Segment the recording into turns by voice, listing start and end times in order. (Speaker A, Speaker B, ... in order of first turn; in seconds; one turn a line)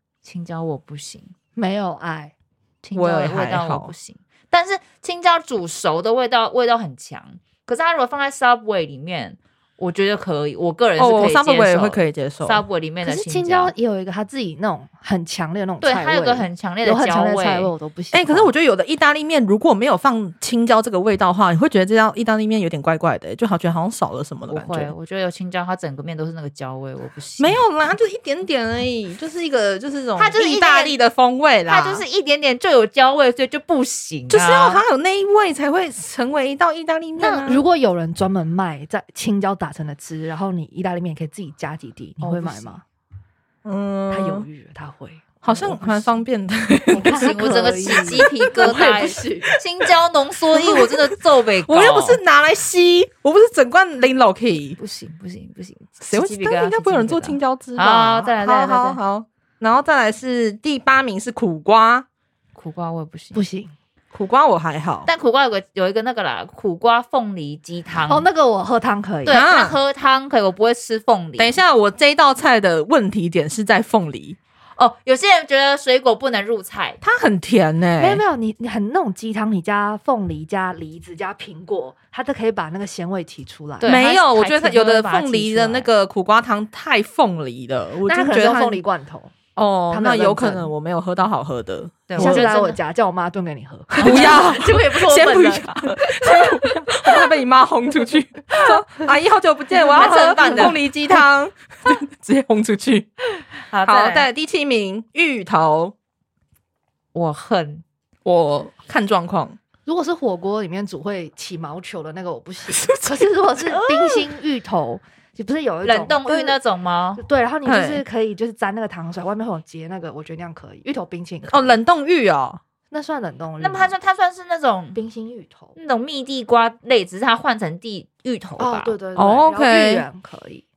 Speaker A: 0.2-1.3
Speaker B: 1.6-2.3
Speaker A: 2.8-13.7
Speaker C: 2.9-3.9
Speaker C: 11.0-12.6
Speaker B: 13.0-18.5
Speaker A: 15.8-17.7
Speaker C: 18.1-24.9
Speaker A: 24.5-27.6
Speaker C: 27.4-32.0
Speaker A: 30.2-31.0
Speaker A: 31.7-34.8
Speaker C: 34.3-37.6
Speaker B: 37.2-42.8
Speaker A: 42.2-42.8
Speaker C: 43.6-44.5
Speaker B: 44.1-46.2
Speaker C: 45.4-47.4
Speaker B: 46.9-49.5
Speaker A: 46.9-52.2
Speaker C: 47.9-48.9
Speaker C: 50.5-54.8
Speaker A: 54.8-59.0
Speaker C: 56.0-62.0
Speaker A: 62.5-63.4
Speaker B: 63.3-63.7
Speaker C: 64.1-65.1
Speaker A: 65.0-68.2
Speaker B: 68.0-69.4
Speaker A: 69.2-71.6
Speaker C: 69.3-69.8
Speaker C: 71.4-74.4
Speaker A: 74.8-77.0
Speaker C: 77.0-78.2
Speaker B: 78.0-84.0
Speaker A: 83.8-85.9
Speaker C: 83.8-88.8
Speaker B: 88.0-89.3
Speaker C: 89.5-92.5
Speaker B: 89.9-90.7
Speaker A: 92.1-92.8
Speaker B: 92.2-97.2
Speaker A: 94.0-94.4
Speaker C: 94.0-103.1
Speaker B: 99.9-100.7
Speaker A: 99.9-100.8
Speaker A: 103.7-104.3
Speaker C: 103.8-105.9
Speaker A: 107.1-107.8
Speaker C: 108.2-109.6
Speaker B: 109.8-116.6
Speaker C: 112.7-113.3
Speaker A: 113.7-114.2
Speaker A: 115.8-117.2
Speaker B: 117.2-121.8
Speaker C: 117.6-118.0
Speaker C: 121.5-122.6
Speaker B: 122.9-123.9
Speaker A: 123.6-125.0
Speaker B: 124.9-125.7
Speaker A: 125.8-128.9
Speaker B: 128.6-130.6
Speaker C: 129.2-130.1